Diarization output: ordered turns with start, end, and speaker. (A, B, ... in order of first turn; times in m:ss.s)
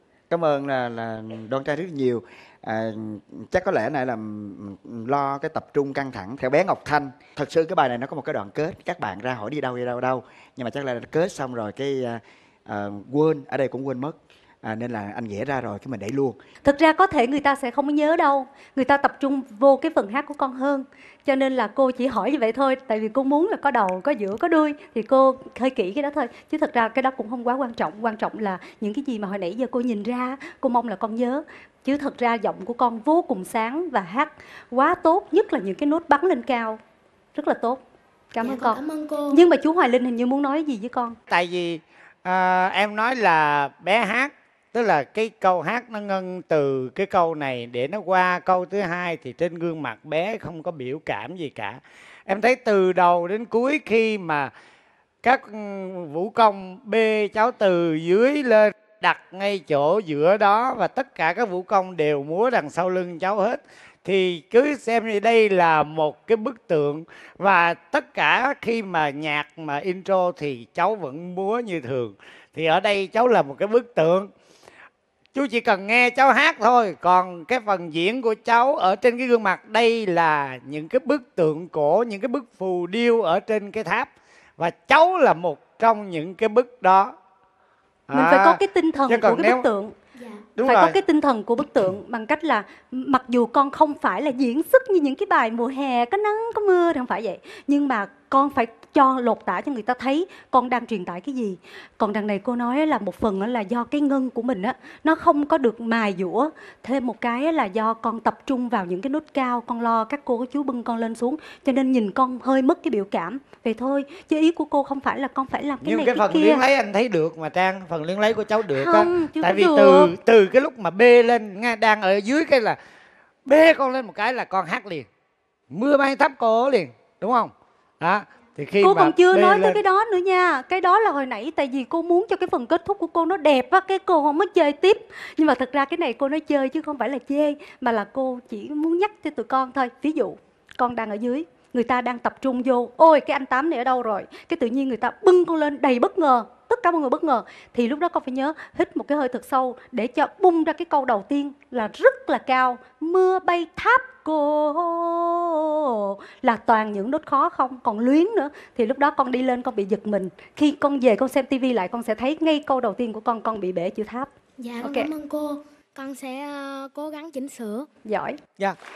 0:00.3-0:16.4 A
0:16.6-0:36.8 B
0:37.3-0:41.2 B
0:38.4-0:39.4 C
0:41.3-0:54.5 D
0:55.2-1:14.3 D
1:15.3-1:27.1 D
1:28.1-1:29.6 D
1:28.1-1:29.9 B
1:30.6-1:31.0 D
1:30.6-1:56.6 B
1:55.8-2:02.8 D
1:58.8-2:00.1 B
2:03.5-2:05.1 D
2:05.7-2:09.8 D
2:08.8-2:44.3 B
2:44.6-2:47.9 C
2:44.8-2:45.1 B
2:48.0-2:48.4 B